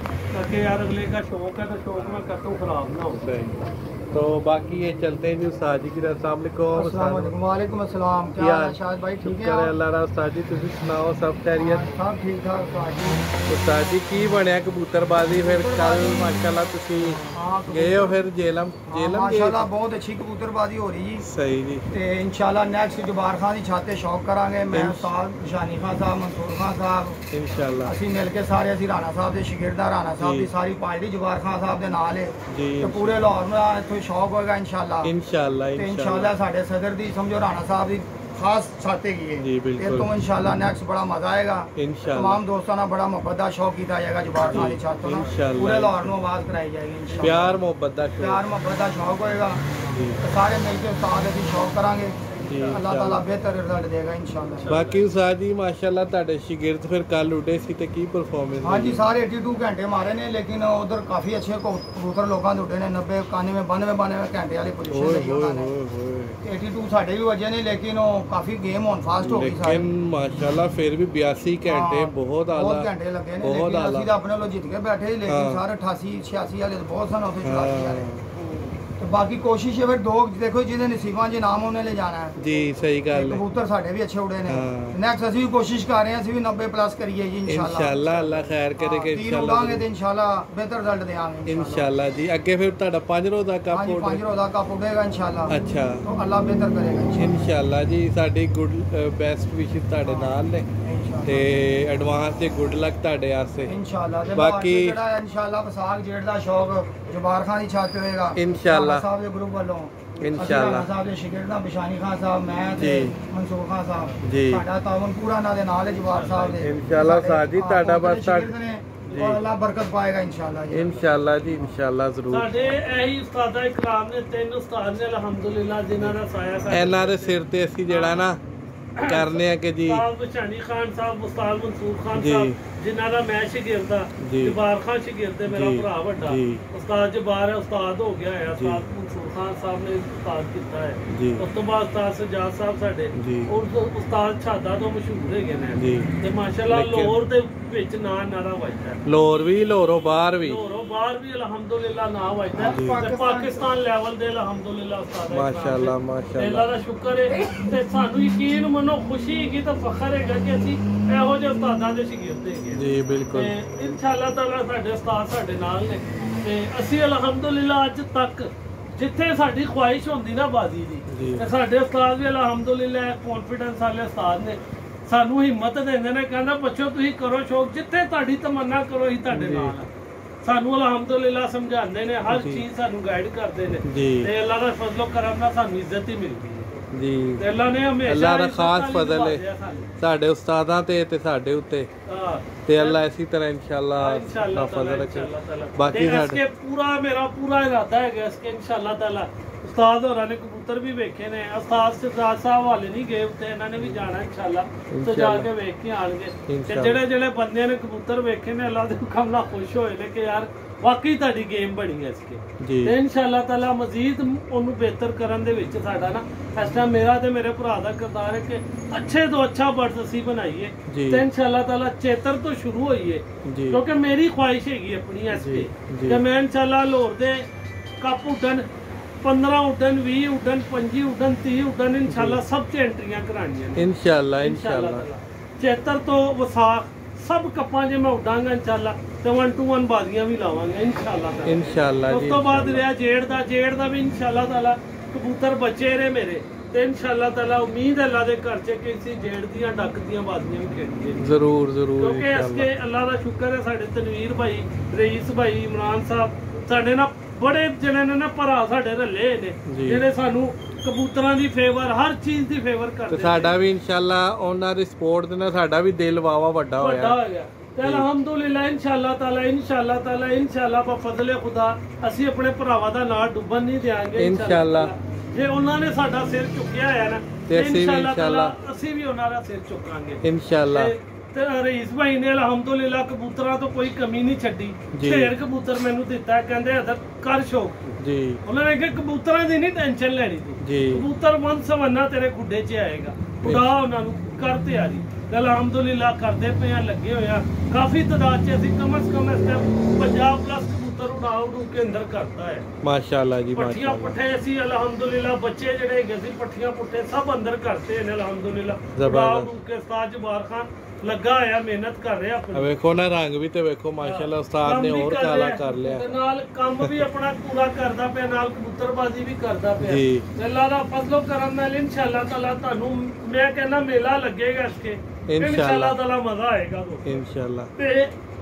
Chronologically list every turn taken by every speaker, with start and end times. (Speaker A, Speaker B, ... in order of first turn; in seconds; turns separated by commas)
Speaker A: 0.3-3.2, Speaker B: 3.1-7.3, Speaker C: 6.7-9.7, Speaker B: 8.4-11.9, Speaker C: 11.6-13.3, Speaker B: 13.4-19.7, Speaker C: 15.4-16.2, Speaker C: 17.0-18.3, Speaker C: 18.9-21.2, Speaker B: 21.2-21.9, Speaker C: 21.9-27.2, Speaker B: 24.7-25.1, Speaker B: 27.3-27.9, Speaker C: 27.8-35.1, Speaker B: 30.2-30.5, Speaker B: 32.5-33.2, Speaker B: 35.0-36.3, Speaker C: 35.7-47.6, Speaker B: 39.4-40.1, Speaker B: 41.8-42.4, Speaker B: 44.4-46.1, Speaker B: 47.2-48.4, Speaker C: 48.2-49.7, Speaker B: 49.9-50.2, Speaker C: 50.2-54.8, Speaker B: 52.4-53.2, Speaker A: 54.5-55.1, Speaker B: 54.7-59.1, Speaker C: 58.6-65.7, Speaker B: 64.9-66.4, Speaker C: 66.4-69.9, Speaker B: 69.2-74.1, Speaker C: 71.6-78.1, Speaker B: 75.3-75.6, Speaker B: 77.4-78.2, Speaker A: 78.3-78.7, Speaker C: 79.0-82.3, Speaker B: 82.3-83.4, Speaker C: 83.1-91.9, Speaker B: 84.5-85.0, Speaker B: 87.5-89.8, Speaker B: 91.5-94.2, Speaker C: 93.7-97.3, Speaker B: 95.5-96.1, Speaker B: 97.1-100.7, Speaker C: 100.0-101.5, Speaker B: 101.2-103.7, Speaker C: 103.7-121.7, Speaker B: 104.3-105.0, Speaker B: 108.3-109.0, Speaker B: 110.2-110.9, Speaker B: 112.8-113.2, Speaker B: 114.2-114.6, Speaker A: 115.8-116.7, Speaker B: 116.6-118.5, Speaker B: 119.1-119.4, Speaker B: 120.7-122.7, Speaker A: 122.3-128.3, Speaker B: 126.7-128.4, Speaker A: 128.9-149.0, Speaker B: 129.0-130.0, Speaker B: 132.1-132.6, Speaker B: 134.2-134.6, Speaker B: 135.5-136.6, Speaker B: 138.5-138.8, Speaker B: 141.1-141.4, Speaker B: 143.1-143.5, Speaker B: 145.8-146.1, Speaker B: 146.7-147.1, Speaker B: 149.0-150.6, Speaker A: 150.4-179.9, Speaker C: 152.5-153.7, Speaker B: 152.7-153.0, Speaker B: 155.3-156.7, Speaker B: 162.7-163.5, Speaker B: 171.1-171.4, Speaker B: 179.3-179.8, Speaker A: 180.4-186.8, Speaker B: 182.3-182.6, Speaker B: 183.8-184.3, Speaker B: 186.9-187.4, Speaker A: 187.4-189.9, Speaker B: 188.1-189.4, Speaker B: 190.0-191.9, Speaker A: 192.0-193.0, Speaker B: 192.7-196.4, Speaker A: 193.9-227.5, Speaker B: 204.9-205.5, Speaker B: 206.5-207.0, Speaker B: 212.6-212.9, Speaker B: 220.9-221.2, Speaker B: 223.4-223.8, Speaker B: 225.3-226.2, Speaker A: 228.0-228.7, Speaker A: 229.2-233.9, Speaker B: 232.1-232.4, Speaker B: 233.8-235.1, Speaker A: 234.4-251.3, Speaker B: 241.4-242.8, Speaker B: 251.2-252.7, Speaker A: 252.0-263.6, Speaker B: 259.7-260.0, Speaker B: 263.1-267.2, Speaker A: 266.8-302.7, Speaker B: 267.8-268.1, Speaker B: 274.2-274.9, Speaker B: 277.5-278.5, Speaker B: 280.2-280.9, Speaker B: 284.9-285.3, Speaker B: 288.0-288.4, Speaker B: 290.6-291.0, Speaker B: 293.4-293.7, Speaker B: 302.8-304.2, Speaker A: 303.5-312.7, Speaker B: 308.9-309.5, Speaker B: 312.5-316.1, Speaker A: 314.0-327.2, Speaker B: 319.8-320.2, Speaker B: 325.3-326.0, Speaker B: 327.0-327.7, Speaker A: 327.8-328.1